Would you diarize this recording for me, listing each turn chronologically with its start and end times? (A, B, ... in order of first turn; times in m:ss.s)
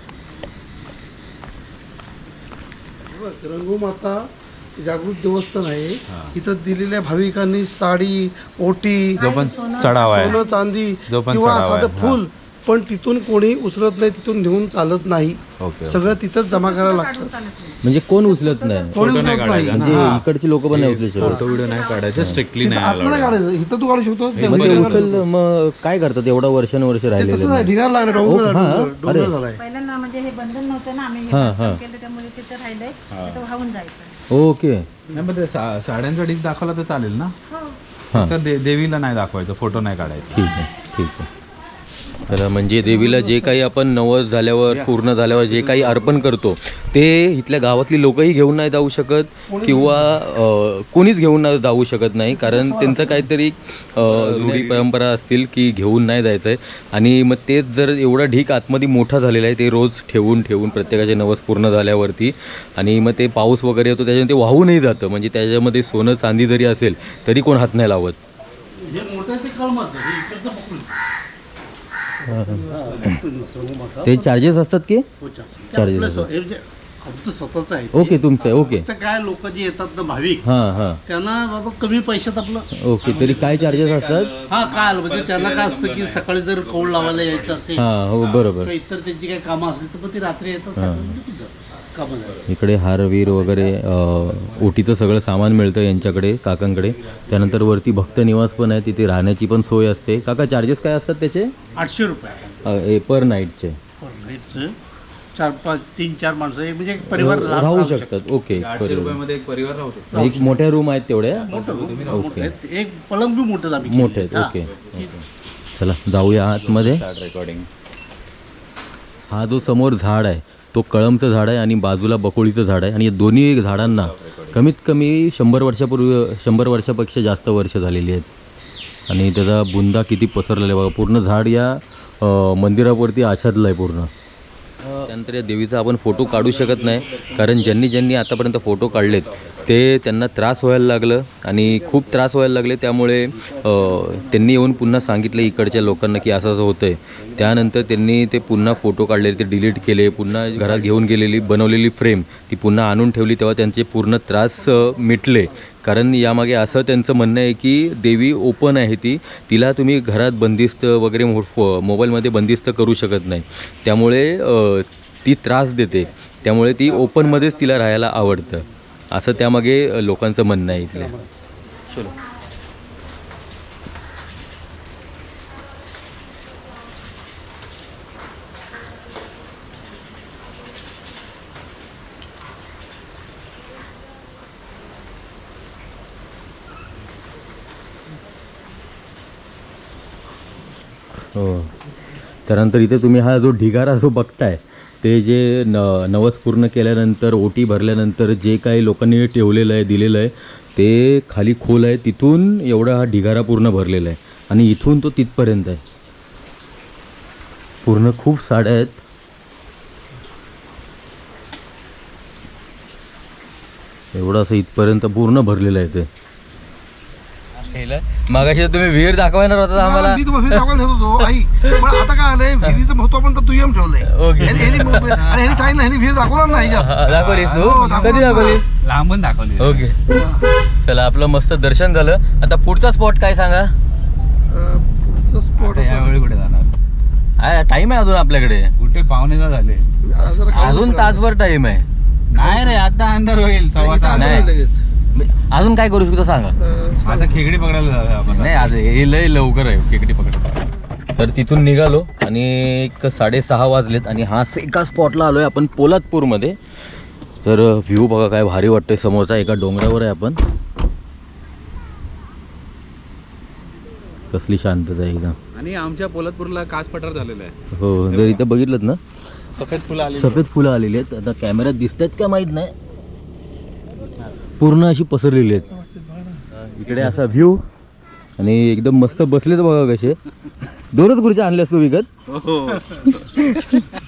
0:03.1-0:09.2 A
0:06.1-0:06.4 B
0:09.2-0:10.6 C
0:09.2-0:10.4 B
0:09.9-0:17.4 A
0:11.1-0:12.2 B
0:15.6-0:16.2 B
0:16.5-0:18.9 C
0:17.8-0:19.0 D
0:18.9-0:20.2 A
0:18.9-0:23.4 B
0:19.6-0:21.4 D
0:21.4-0:22.1 C
0:22.6-0:25.0 A
0:24.4-0:25.2 B
0:24.4-0:29.4 D
0:27.2-0:29.6 A
0:28.0-0:28.3 C
0:29.6-0:34.2 C
0:31.3-0:31.8 D
0:33.1-0:33.4 B
0:34.3-0:34.9 D
0:35.1-0:37.4 B
0:37.5-0:37.8 C
0:38.1-0:40.6 B
0:40.3-0:41.3 D
0:42.3-1:08.2 D
0:43.1-0:43.4 A
0:45.5-0:46.3 B
0:49.5-0:49.9 A
0:52.4-0:53.2 A
0:54.0-0:54.9 B
1:08.8-1:10.9 E
1:12.2-1:13.2 D
1:12.7-1:14.3 E
1:14.0-1:15.1 D
1:15.2-1:20.5 E
1:15.7-1:16.3 D
1:17.9-1:18.9 D
1:20.4-1:21.0 D
1:21.0-1:22.7 E
1:22.7-1:24.3 D
1:23.0-1:27.6 B
1:24.5-1:27.9 E
1:27.8-1:28.7 D
1:28.4-1:32.4 E
1:30.8-1:31.2 D
1:32.5-1:41.6 D
1:41.8-1:42.6 E
1:42.6-1:43.8 D
1:44.0-1:44.8 E
1:45.3-1:48.1 E
1:47.1-1:49.2 D
1:48.5-1:50.3 B
1:50.1-1:50.6 E
1:50.1-1:51.5 D
1:51.5-1:55.1 E
1:51.5-1:52.3 B
1:52.1-1:52.5 D
1:53.8-1:57.0 D
1:56.5-1:57.7 B
1:59.3-2:08.3 D
2:04.2-2:04.5 B
2:09.1-2:14.1 D
2:15.0-2:51.1 D
2:50.9-2:51.3 E
2:51.9-2:52.2 D
3:11.3-3:11.7 D
3:12.5-3:25.8 D
3:27.8-3:29.0 D
3:34.1-3:36.1 D
3:37.7-3:40.7 D
3:39.8-3:46.9 A
3:41.6-3:41.9 D
3:44.0-3:45.2 D
3:44.4-3:45.8 B
3:46.6-3:48.7 D
3:46.8-3:49.9 B
3:47.6-3:48.6 A
3:49.6-3:50.1 D
3:50.8-3:53.8 D
3:54.5-3:56.2 A
3:55.6-3:56.7 B
3:57.4-3:58.7 D
3:58.8-3:59.9 B
4:00.0-4:01.2 A
4:00.4-4:01.9 D
4:02.3-4:04.5 B
4:02.4-4:02.8 A
4:03.8-4:04.8 A
4:04.1-4:04.5 D
4:05.1-4:06.6 D
4:06.6-4:07.4 A
4:07.0-4:08.8 B
4:08.3-4:10.6 D
4:11.2-4:16.6 D
4:17.4-4:20.4 D
4:24.3-4:25.4 D
4:25.5-4:27.6 B
4:27.7-4:29.0 D
4:28.1-4:28.4 B
4:29.5-4:30.5 B
4:29.7-4:32.7 D
4:34.6-4:35.8 D
4:36.5-4:37.6 D
4:36.8-4:37.1 B
4:38.4-4:40.2 D
4:40.9-4:42.1 D
4:42.3-4:43.5 B
4:43.1-4:43.8 D